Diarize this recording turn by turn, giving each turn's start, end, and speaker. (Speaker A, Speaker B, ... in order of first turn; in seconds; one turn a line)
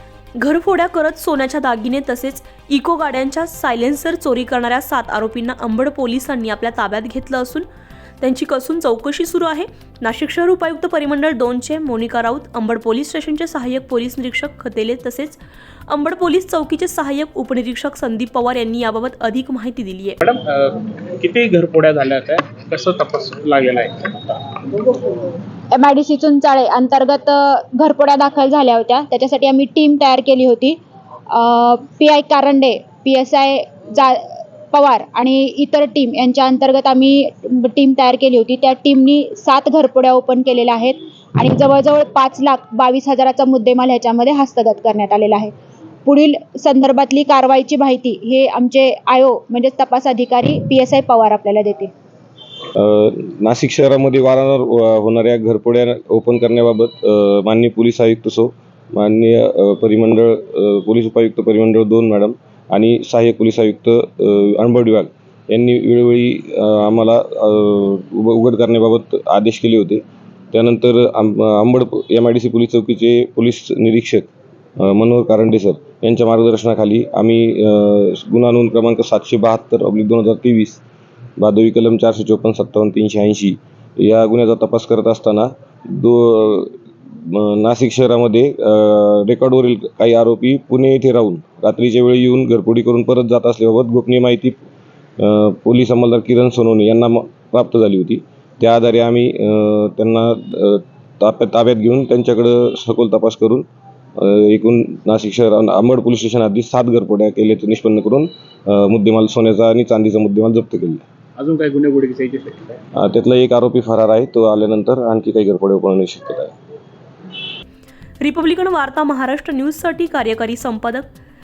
Speaker A: 0.4-7.6
Speaker A: 8.2-20.2
Speaker B: 20.2-25.2
Speaker C: 25.7-30.8
Speaker C: 31.3-45.5
Speaker C: 46.0-51.9
Speaker D: 52.8-80.8
Speaker D: 81.4-94.6
Speaker D: 95.2-103.6
Speaker D: 104.2-111.0
Speaker B: 111.4-112.8
Speaker D: 112.9-116.5
Speaker A: 118.2-121.1